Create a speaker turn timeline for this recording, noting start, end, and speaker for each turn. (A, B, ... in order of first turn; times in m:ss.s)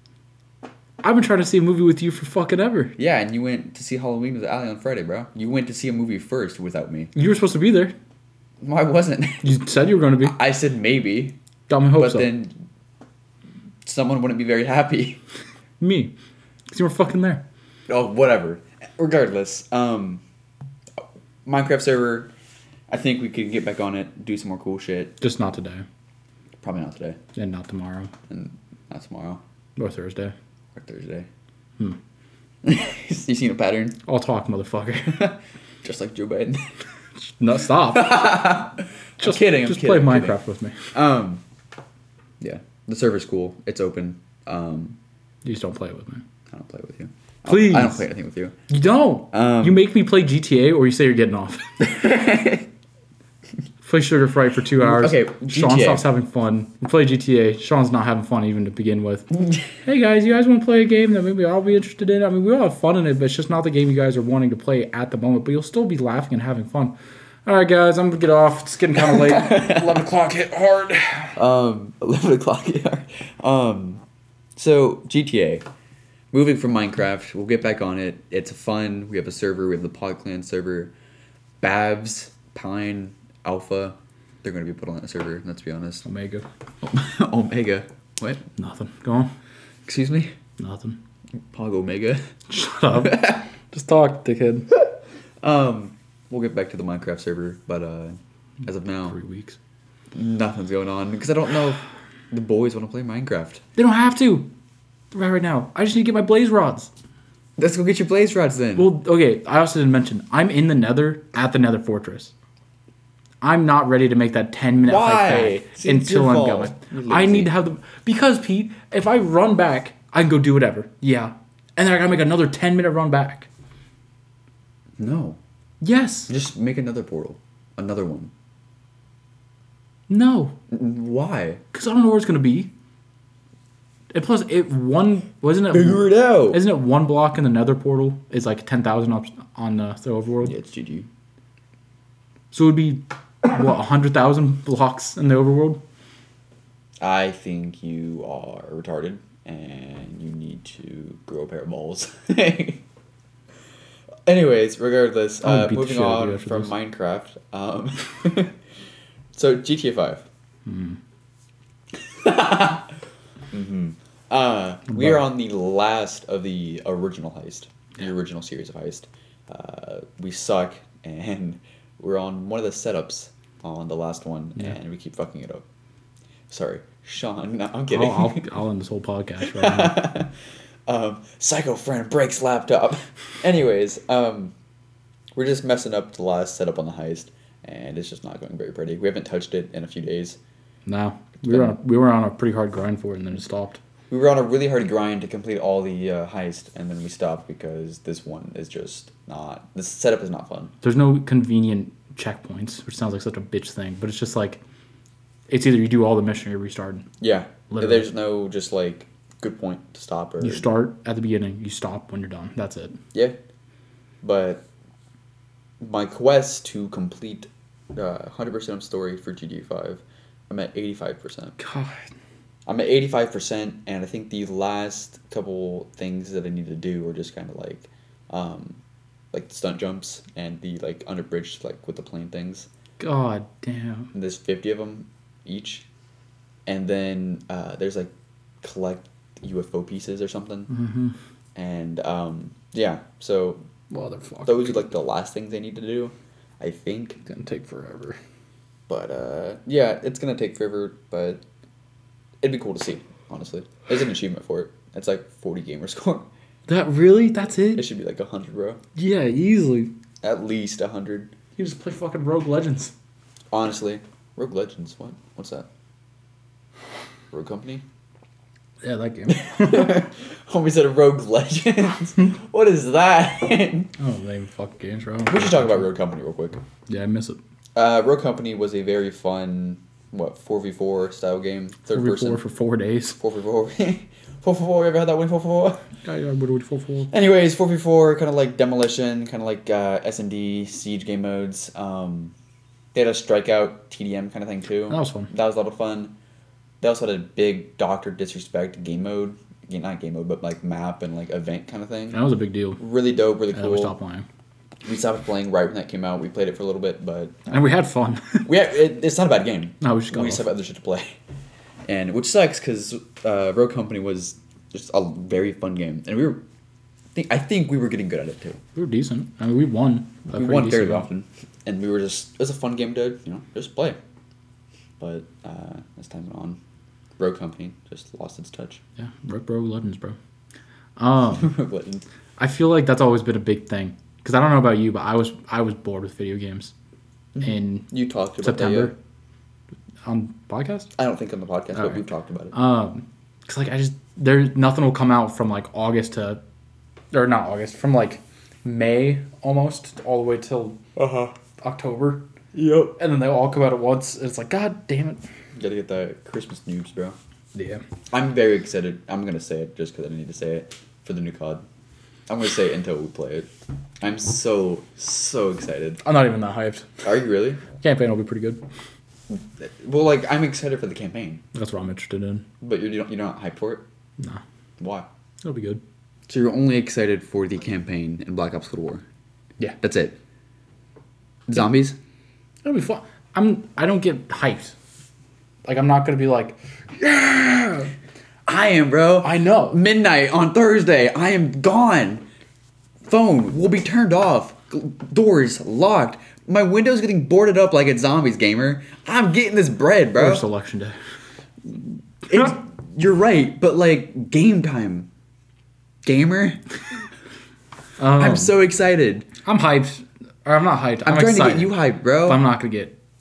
0:01.0-0:03.0 A
0:03.0-0:07.1 B
0:07.2-0:08.0 A
0:08.6-0:09.6 B
0:09.4-0:10.4 A
0:10.2-0:11.4 B
0:11.7-0:12.3 A
0:12.0-0:12.6 B
0:13.8-0:15.2 B
0:15.8-0:16.1 A
0:16.7-0:17.4 A
0:17.9-0:20.2 B
0:21.4-0:22.3 B
0:22.9-0:25.2 B
0:25.2-0:25.9 A
0:26.6-0:27.2 B
0:27.4-0:28.1 A
0:28.3-0:29.4 B
0:29.8-0:30.4 A
0:30.8-0:31.3 B
0:32.6-0:34.0 B
0:34.1-0:35.3 A
0:35.1-0:36.6 B
0:37.2-0:38.6 A
0:37.9-0:40.4 B
0:39.2-0:40.8 A
0:40.9-0:41.4 B
0:42.4-0:45.0 B
0:45.4-0:46.2 A
0:46.5-0:48.6 B
0:47.4-0:48.1 A
0:48.7-0:52.4 A
0:49.3-0:49.8 B
0:52.0-0:52.6 B
0:53.8-1:11.4 A
0:54.8-0:56.1 B
1:09.0-1:10.0 B
1:11.4-1:14.0 B
1:14.6-1:15.6 B
1:16.3-1:20.9 B
1:21.6-1:26.1 B
1:26.0-1:26.5 A
1:26.8-1:28.4 B
1:28.6-1:29.3 A
1:29.9-1:30.3 B
1:30.6-1:31.0 A
1:31.5-1:32.3 B
1:32.5-1:34.7 A
1:33.0-1:33.4 B
1:35.4-1:39.2 B
1:39.1-1:39.6 A
1:40.1-1:43.6 B
1:43.8-1:44.5 A
1:45.1-1:46.9 A
1:47.6-1:48.9 B
1:48.8-1:52.3 A
1:53.4-2:03.5 A
1:54.8-1:57.6 B
2:05.0-2:05.4 B
2:05.8-2:06.3 A
2:06.3-2:08.3 B
2:10.1-2:10.6 A
2:10.7-2:11.6 B
2:11.7-2:12.7 A
2:14.1-2:20.6 A
2:15.7-2:16.6 B
2:20.4-2:21.1 B
2:22.5-2:25.8 A
2:27.0-2:32.8 B
2:34.3-2:38.6 B
2:35.4-2:36.7 A
2:39.3-2:40.2 B
2:40.7-2:41.0 A
2:42.2-2:42.9 B
2:43.5-2:55.6 B
2:44.9-2:45.2 A
2:56.5-2:58.5 B
2:57.9-3:00.1 A
2:59.4-3:00.3 B
3:00.9-3:04.5 B
3:05.4-3:10.4 B
3:10.9-3:13.8 A
3:11.5-3:11.8 B
3:14.1-3:20.7 B
3:20.8-3:24.6 A
3:25.5-3:27.1 A
3:27.2-3:30.7 B
3:27.7-3:28.1 A
3:30.4-3:33.0 A
3:34.2-3:34.6 B
3:35.8-3:41.6 B
3:41.6-3:42.0 A
3:42.7-3:48.8 B
3:49.3-3:52.7 B
3:53.0-3:54.1 A
3:54.1-3:55.9 B
3:56.7-4:00.7 B
4:00.7-4:01.2 A
4:01.6-4:03.6 B
4:03.9-4:04.8 A
4:04.5-4:07.2 B
4:07.3-4:08.2 A
4:08.9-4:11.4 B
4:12.4-4:16.3 B
4:16.7-4:17.9 A
4:17.8-4:18.8 B
4:19.0-4:19.9 A
4:20.2-4:21.3 B
4:21.6-4:22.9 A
4:23.5-4:25.7 B
4:27.3-4:27.8 B
4:28.8-4:30.1 A
4:29.3-4:33.9 B
4:34.0-4:35.9 A
4:35.3-4:36.6 B
4:36.9-4:37.4 A
4:37.8-4:42.4 B
4:41.9-4:43.2 A
4:43.2-4:45.8 B
4:46.0-4:47.1 A
4:47.1-4:52.3 B
4:52.9-4:56.1 B
4:54.9-4:55.3 A
4:56.8-5:02.2 B
5:02.1-5:02.8 A
5:02.8-5:03.9 B
5:03.5-5:04.3 A
5:04.9-5:07.4 B
5:07.5-5:08.5 A
5:08.4-5:11.2 B
5:09.8-5:10.4 A
5:11.9-5:16.4 B
5:17.1-5:18.6 B
5:18.8-5:21.1 A
5:20.3-5:24.0 B
5:25.0-5:26.6 B
5:27.2-5:28.8 B
5:29.0-5:30.2 A
5:31.0-5:31.5 A
5:31.3-5:32.0 B
5:32.4-5:36.7 A
5:37.3-5:38.9 B
5:37.4-5:39.0 A
5:40.0-5:40.9 A
5:41.0-5:42.6 B
5:41.8-5:42.0 A
5:42.5-5:46.4 A
5:47.1-5:50.8 A
5:51.0-5:51.4 B
5:51.6-5:52.3 A
5:52.5-5:53.0 B
5:53.0-5:55.2 A
5:55.6-5:57.2 B
5:57.5-5:57.8 A
5:58.1-6:01.6 B
6:02.3-6:03.5 B
6:04.0-6:06.0 B
6:06.0-6:07.0 A
6:07.0-6:07.6 B
6:07.8-6:08.6 A
6:09.3-6:11.4 B
6:11.5-6:12.5 A
6:12.6-6:13.8 B
6:14.8-6:15.1 B
6:15.4-6:15.8 A
6:16.3-6:19.0 B
6:19.8-6:20.2 B
6:21.5-6:22.0 B
6:22.6-6:24.8 A
6:25.6-6:27.9 A
6:28.5-6:32.2 B
6:29.2-6:29.8 A
6:33.1-6:40.4 B
6:40.2-6:41.0 A
6:41.7-6:45.1 B
6:46.0-6:46.6 B
6:48.0-6:48.6 A
6:48.1-6:49.3 B
6:49.4-6:53.0 A
6:51.0-6:52.4 B